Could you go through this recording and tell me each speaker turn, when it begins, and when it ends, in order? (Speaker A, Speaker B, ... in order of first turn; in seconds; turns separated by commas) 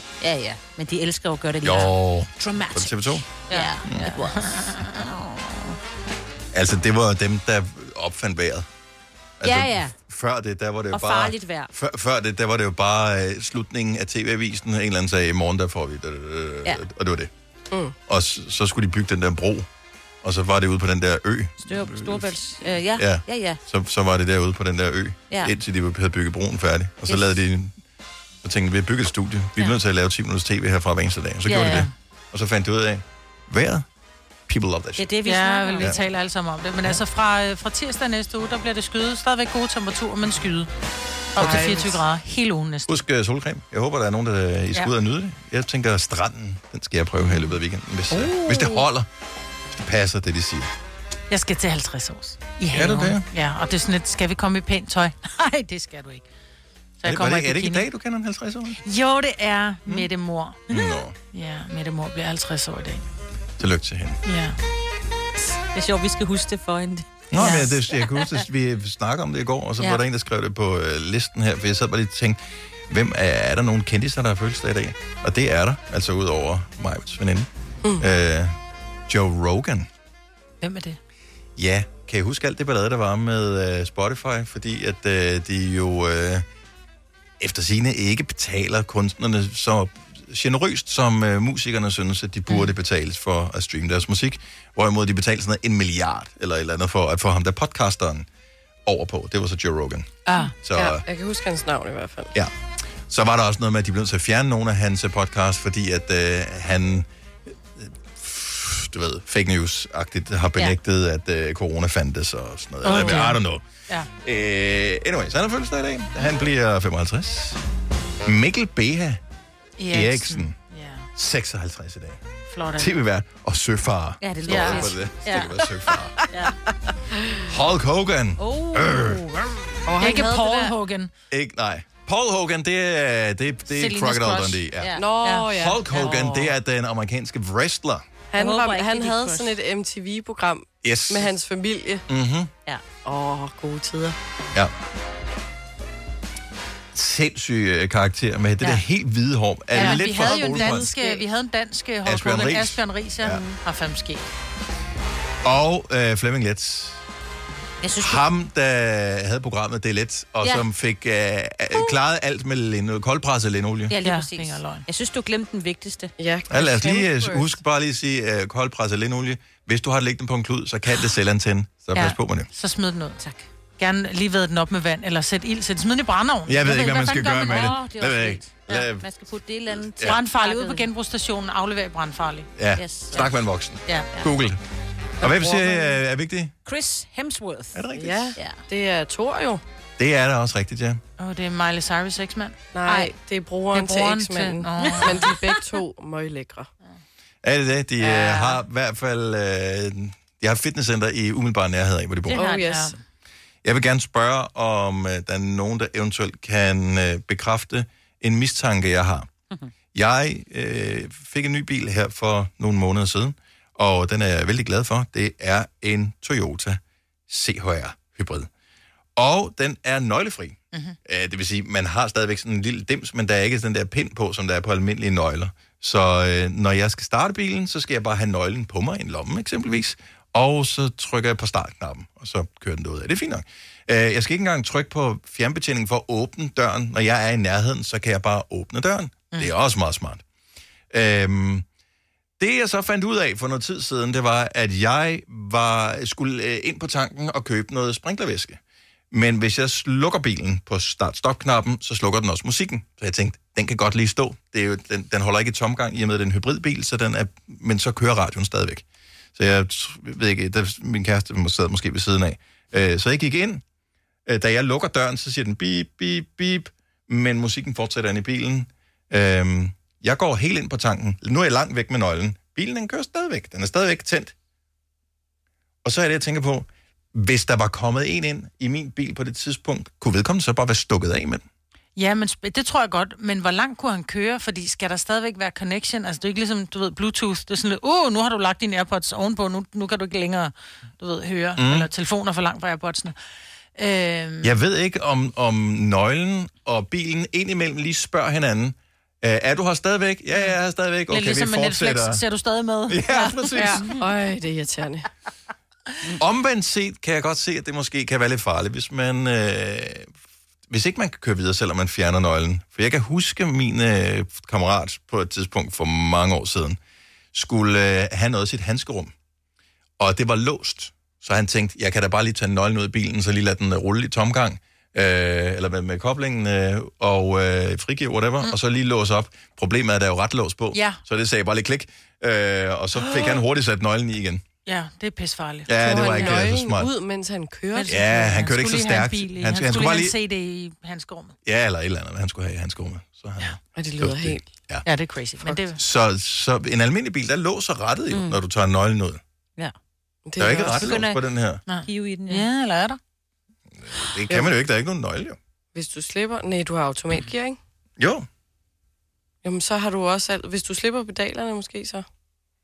Speaker A: 0.2-5.7, Speaker B: 1.6-3.2, Speaker C: 3.5-4.8, Speaker B: 3.8-4.2, Speaker B: 6.5-8.7, Speaker B: 9.4-17.3, Speaker A: 9.4-9.9, Speaker A: 10.9-11.7, Speaker B: 18.1-19.7, Speaker B: 20.2-22.3, Speaker A: 21.6-23.6, Speaker B: 22.9-27.8, Speaker A: 27.1-27.4, Speaker B: 28.4-33.9, Speaker A: 31.4-31.9, Speaker B: 34.5-35.1, Speaker A: 35.0-36.0, Speaker C: 35.2-40.7, Speaker C: 41.3-43.0, Speaker B: 41.4-41.7, Speaker D: 41.4-42.0, Speaker B: 42.9-49.1, Speaker C: 48.1-48.8, Speaker B: 49.7-50.7, Speaker C: 51.3-56.2, Speaker B: 52.7-53.2, Speaker C: 57.0-57.9, Speaker B: 57.0-58.8, Speaker C: 58.8-60.8, Speaker B: 60.7-61.1, Speaker C: 61.3-63.0, Speaker B: 63.6-64.2, Speaker C: 64.2-64.6, Speaker A: 65.7-68.4, Speaker B: 67.3-72.4, Speaker C: 67.4-67.7, Speaker B: 72.9-78.5, Speaker B: 79.1-79.9, Speaker C: 80.6-81.0, Speaker B: 81.5-86.4, Speaker B: 87.4-98.2, Speaker B: 98.8-101.0, Speaker C: 100.2-100.5, Speaker D: 100.7-102.3, Speaker B: 102.3-107.1, Speaker B: 107.8-113.6, Speaker C: 112.8-114.1, Speaker B: 114.2-117.6, Speaker B: 118.2-119.2, Speaker C: 119.8-121.1, Speaker B: 119.9-120.5, Speaker B: 121.2-122.2, Speaker C: 122.5-122.9, Speaker B: 122.8-126.2, Speaker A: 124.2-125.5, Speaker C: 124.5-124.9, Speaker B: 127.5-129.3, Speaker A: 128.4-129.2, Speaker D: 129.8-130.7, Speaker C: 130.0-131.1, Speaker B: 131.3-135.0, Speaker C: 133.7-134.6, Speaker A: 134.8-135.4, Speaker D: 135.0-136.5, Speaker B: 135.5-138.1, Speaker D: 138.3-142.0, Speaker A: 138.3-139.6, Speaker B: 140.8-141.3, Speaker B: 142.1-142.5, Speaker D: 143.0-144.2, Speaker B: 146.9-150.9, Speaker C: 149.7-154.3, Speaker D: 149.8-151.3, Speaker B: 152.0-153.4, Speaker B: 155.4-157.0, Speaker A: 157.8-158.2, Speaker B: 158.0-163.9, Speaker A: 163.9-166.1, Speaker C: 164.0-164.8, Speaker D: 166.2-167.6, Speaker B: 166.5-172.5, Speaker C: 171.9-173.2, Speaker A: 173.2-173.4, Speaker C: 173.8-177.8, Speaker B: 176.5-179.1, Speaker A: 177.3-180.9, Speaker B: 179.9-180.2, Speaker C: 180.0-182.5, Speaker B: 182.6-184.6, Speaker A: 182.8-183.2, Speaker B: 185.2-186.5, Speaker A: 186.7-187.8, Speaker B: 187.7-188.4, Speaker D: 187.9-189.6, Speaker A: 188.3-188.6, Speaker B: 190.0-191.0, Speaker C: 191.2-193.1, Speaker D: 192.7-196.7, Speaker C: 193.7-195.3, Speaker A: 194.8-195.3, Speaker B: 197.4-202.4, Speaker D: 198.0-198.5, Speaker A: 202.3-202.7, Speaker D: 202.3-202.9, Speaker C: 202.4-202.9, Speaker B: 203.6-209.3, Speaker B: 209.9-218.5, Speaker B: 219.2-240.2, Speaker C: 220.7-221.0, Speaker B: 240.9-241.7, Speaker B: 242.4-248.6, Speaker B: 249.1-263.6, Speaker B: 264.2-274.3, Speaker B: 275.8-281.4, Speaker C: 281.9-293.1, Speaker B: 291.6-291.9, Speaker C: 293.8-294.5, Speaker B: 294.4-302.2, Speaker C: 301.1-303.8, Speaker B: 302.9-303.9, Speaker D: 303.5-305.1, Speaker B: 306.2-310.1, Speaker B: 310.7-316.8, Speaker B: 317.3-319.1, Speaker B: 320.0-334.4, Speaker C: 330.7-331.0, Speaker C: 334.6-336.4, Speaker B: 335.7-336.9, Speaker D: 335.8-338.0, Speaker C: 337.7-341.4, Speaker B: 337.9-340.1, Speaker B: 341.4-344.9, Speaker D: 343.7-344.5, Speaker C: 344.9-345.8, Speaker B: 345.8-349.2, Speaker A: 348.1-348.4, Speaker D: 350.3-351.0, Speaker B: 350.4-351.6, Speaker A: 350.7-352.5, Speaker C: 351.7-353.0, Speaker B: 353.8-355.4, Speaker D: 355.7-357.6, Speaker B: 358.0-358.2, Speaker D: 359.4-362.1